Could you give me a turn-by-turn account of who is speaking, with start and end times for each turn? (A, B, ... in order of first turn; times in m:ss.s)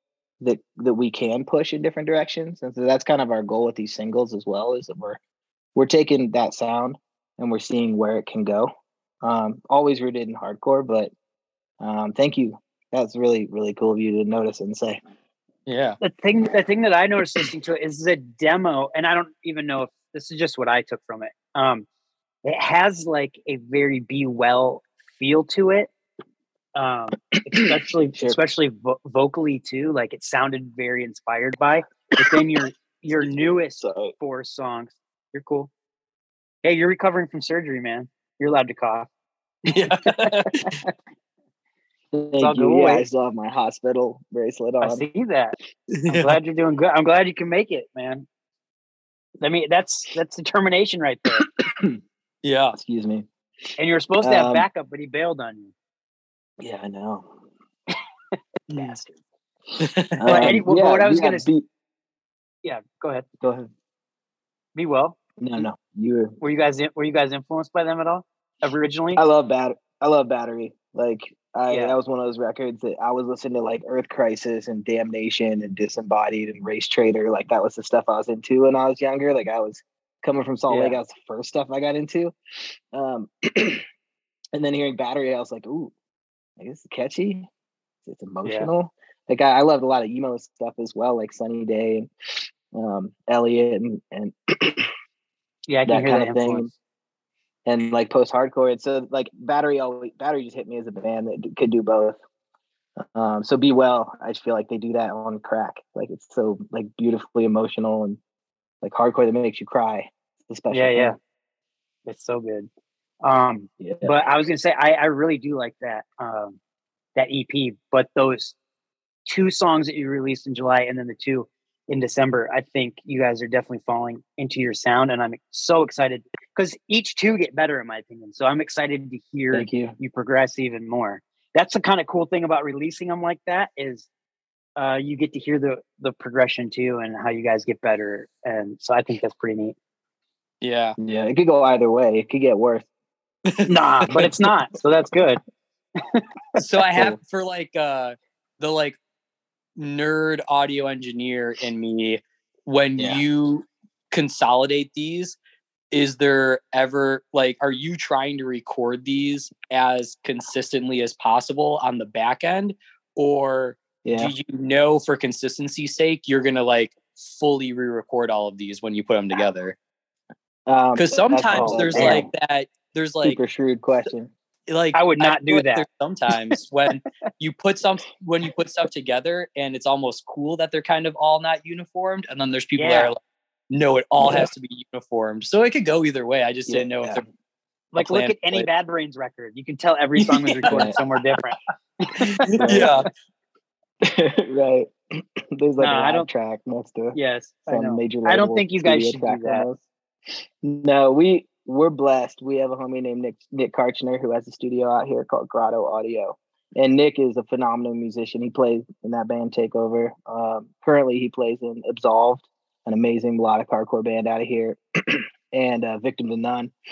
0:00.4-0:05.2 A
0:05.7-0:08.7 A
0:09.2-0:11.1 A
0:11.8-0:15.0 A
0:15.7-0:16.0 B
0:16.0-0:21.9 C
0:22.4-0:25.9 C
0:26.7-0:35.7 C
0:27.5-0:28.4 A
0:32.2-0:32.4 A
0:33.1-0:34.1 A
0:36.6-0:39.1 C
0:39.7-0:40.7 B
0:40.1-0:40.7 C
0:42.1-0:45.0 A
0:42.4-0:43.0 C
0:44.8-0:48.2 C
0:45.9-0:46.4 B
0:49.4-0:51.5 C
0:51.5-0:52.0 A
0:52.4-0:52.7 B
0:52.7-0:53.3 A
0:53.8-0:55.7 C
0:54.2-0:54.7 A
0:56.6-0:57.4 A
0:58.7-0:59.0 A
0:58.7-0:59.0 C
0:59.8-1:00.6 B
1:00.2-1:01.7 A
1:00.3-1:01.5 C
1:02.6-1:03.2 C
1:03.4-1:03.7 A
1:04.7-1:05.2 C
1:05.4-1:06.4 A
1:06.4-1:09.2 C
1:09.2-1:22.3 A
1:11.7-1:12.0 C
1:20.7-1:21.0 C
1:22.9-1:23.8 A
1:24.5-1:25.9 A
1:26.6-1:27.5 A
1:28.0-1:32.1 A
1:28.4-1:28.7 C
1:32.7-1:34.9 A
1:35.7-1:36.7 C
1:35.8-1:36.7 A
1:37.6-1:42.2 A
1:43.0-1:48.2 A
1:48.8-1:51.2 A
1:50.7-1:51.2 C
1:52.0-1:52.7 C
1:53.2-1:56.6 C
1:53.8-1:54.1 A
1:57.1-1:58.6 C
1:59.3-2:14.1 C
2:09.5-2:09.9 A
2:14.8-2:19.8 C
2:20.6-2:21.0 B
2:21.0-2:22.9 A
2:23.4-2:24.2 B
2:23.7-2:25.4 C
2:26.0-2:26.2 C
2:26.6-2:29.0 B
2:29.8-2:35.4 B
2:35.9-2:49.8 B
2:44.0-2:44.3 A
2:50.7-2:52.2 A
2:51.0-2:53.4 B
2:51.5-2:52.3 C
2:53.2-2:54.3 A
2:54.7-3:03.2 B
2:54.9-2:55.8 C
3:02.7-3:03.1 C
3:03.7-3:07.2 B
3:04.2-3:04.5 A
3:06.7-3:07.2 A
3:07.9-3:13.0 C
3:07.9-3:08.7 B
3:10.2-3:11.2 B
3:10.6-3:11.0 A
3:12.2-3:13.0 B
3:12.5-3:13.0 A
3:14.0-3:14.9 A
3:15.5-3:19.8 A
3:15.8-3:16.3 C
3:17.1-3:19.7 C
3:20.6-3:36.7 A